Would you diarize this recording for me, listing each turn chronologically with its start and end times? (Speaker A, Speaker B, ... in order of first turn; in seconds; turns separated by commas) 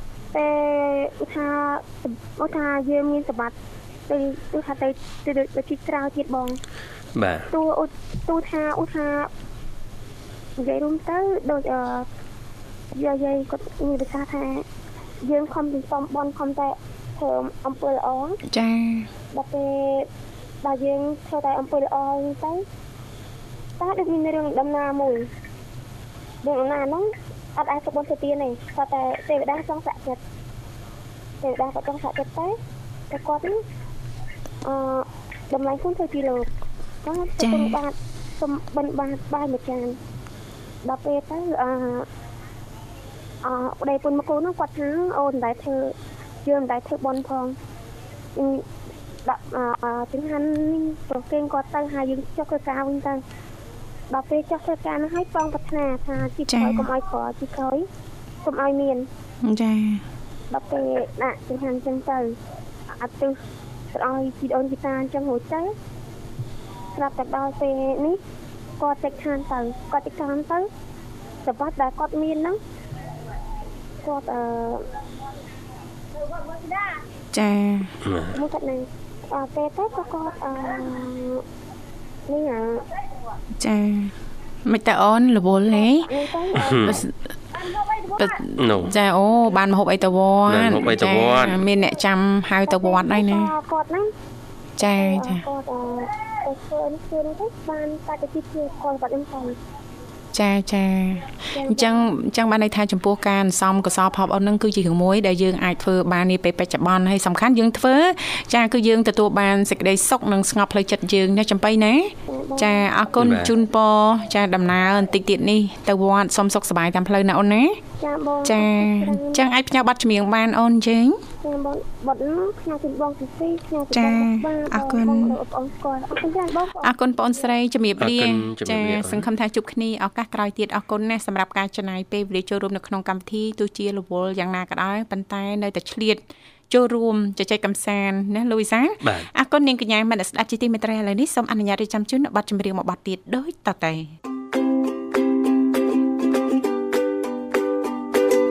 Speaker A: 0.3-3.5, Speaker A: 4.1-6.5, Speaker B: 7.2-7.5, Speaker A: 7.5-9.3, Speaker A: 10.6-12.1, Speaker A: 12.9-14.7, Speaker A: 15.2-18.4, Speaker C: 18.5-19.1, Speaker A: 19.3-20.1, Speaker A: 20.6-22.6, Speaker A: 23.8-25.2, Speaker A: 26.4-30.2, Speaker A: 31.4-32.6, Speaker A: 33.1-33.6, Speaker A: 34.6-36.5, Speaker A: 37.0-40.0, Speaker C: 37.4-37.8, Speaker A: 40.9-42.1, Speaker A: 43.4-45.9, Speaker A: 46.5-47.5, Speaker A: 48.4-48.6, Speaker A: 49.2-53.2, Speaker A: 54.1-57.9, Speaker C: 56.5-56.9, Speaker A: 58.5-59.1, Speaker C: 59.4-60.0, Speaker A: 60.5-62.3, Speaker A: 62.9-63.4, Speaker A: 63.9-65.7, Speaker A: 67.0-68.2, Speaker A: 68.8-70.7, Speaker A: 71.4-72.6, Speaker A: 74.0-74.9, Speaker C: 77.3-77.9, Speaker B: 78.0-78.4, Speaker A: 78.3-81.4, Speaker A: 82.3-82.8, Speaker C: 83.6-84.1, Speaker C: 84.7-86.1, Speaker A: 86.0-87.0, Speaker B: 86.5-87.0, Speaker C: 86.7-87.3, Speaker C: 88.2-93.5, Speaker B: 88.6-88.9, Speaker B: 90.5-91.6, Speaker A: 92.7-94.1, Speaker C: 94.8-95.4, Speaker A: 95.0-99.5, Speaker C: 100.3-117.8, Speaker A: 101.5-102.0, Speaker A: 112.3-112.9, Speaker B: 113.2-113.5, Speaker A: 118.0-119.4, Speaker C: 118.4-121.2, Speaker A: 121.4-127.5, Speaker C: 123.9-125.4, Speaker C: 126.8-144.2, Speaker B: 128.0-129.3, Speaker B: 139.0-139.3